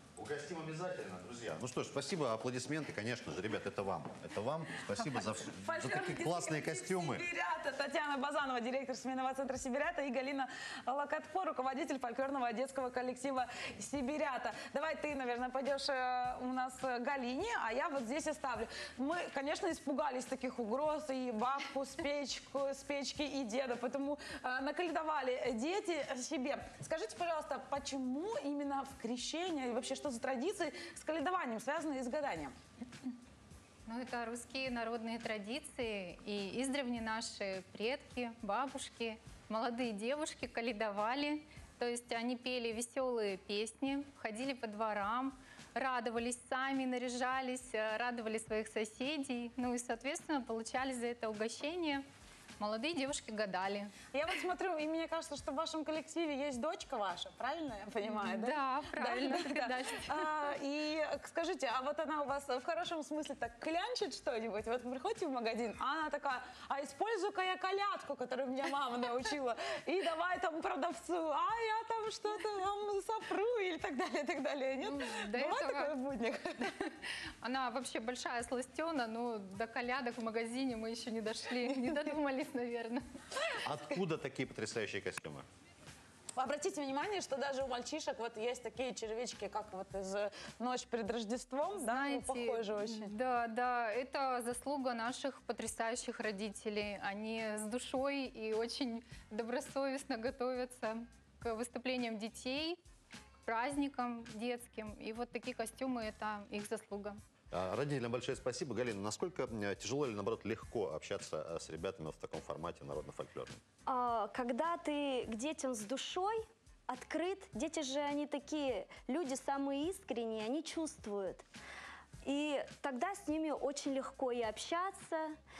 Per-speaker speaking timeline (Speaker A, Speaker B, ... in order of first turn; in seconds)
Speaker A: 0.1-7.2, 83.6-85.4, 107.5-113.6
Speaker B: 5.6-32.5, 54.1-76.5, 86.4-93.1
Speaker C: 33.9-52.0, 52.6-53.9, 58.0-60.3, 74.8-76.0, 76.6-83.0, 91.7-102.8, 103.5-107.2
Speaker D: 113.9-121.4, 122.2-125.3